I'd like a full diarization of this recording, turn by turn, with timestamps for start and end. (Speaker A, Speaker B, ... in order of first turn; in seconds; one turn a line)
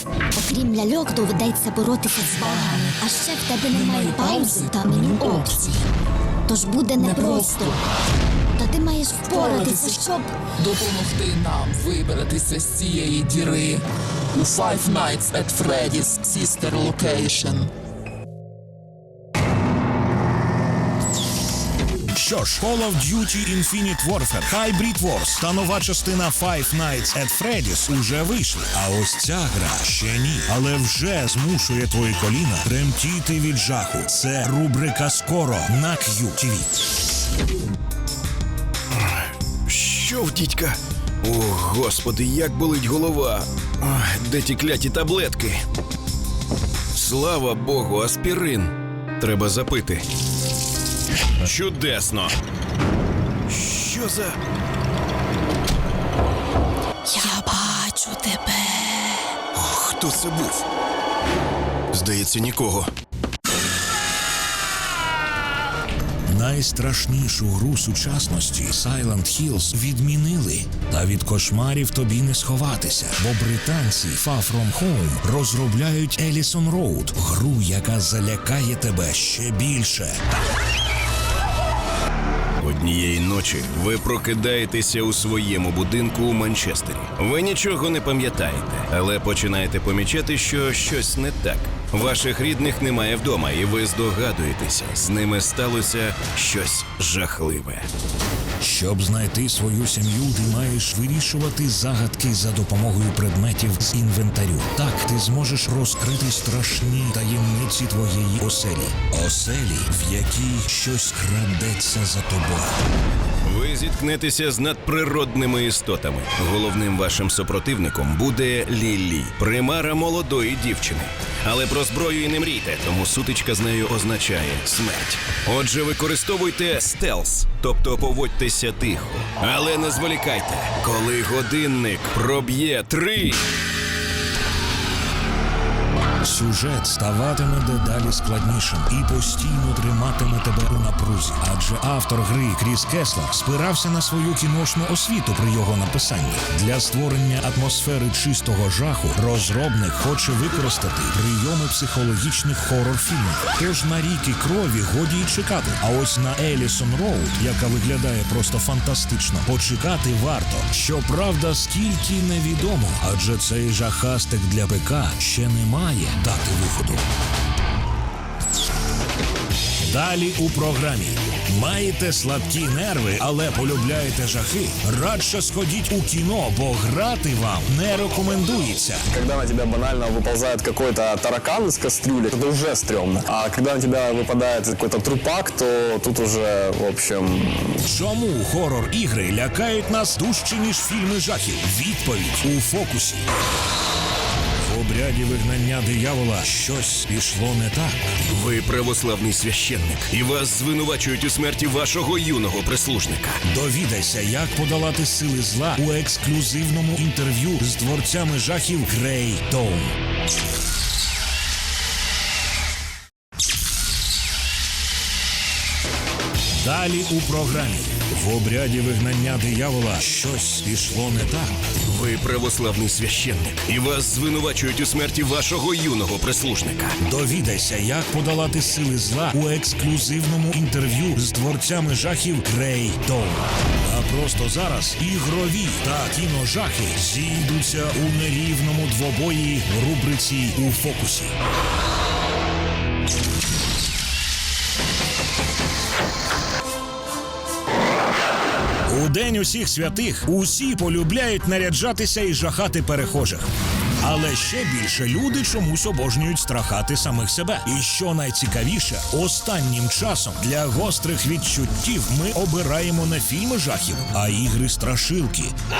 Speaker A: 0.3-5.7
Speaker A: 6.5-7.8
Speaker A: 8.6-10.5
Speaker B: 10.6-13.8
Speaker B: 14.3-17.7
Speaker C: 22.1-36.7
Speaker D: 39.7-45.6
Speaker D: 47.0-50.1
Speaker D: 51.4-52.3
Speaker D: 53.5-54.4
Speaker A: 57.2-58.4
Speaker D: 59.5-60.6
Speaker D: 61.9-62.9
Speaker C: 66.3-80.2
Speaker D: 82.6-97.9
Speaker C: 98.6-112.8
Speaker D: 113.4-133.4
Speaker C: 136.2-167.1
Speaker C: 169.8-179.1
Speaker E: 179.1-187.8
Speaker C: 187.8-193.2
Speaker C: 194.6-198.0
Speaker D: 198.3-203.4
Speaker C: 203.4-209.9
Speaker C: 216.6-221.5
Speaker D: 221.8-227.0
Speaker C: 227.0-241.3
Speaker C: 248.9-253.5
Speaker C: 254.0-265.6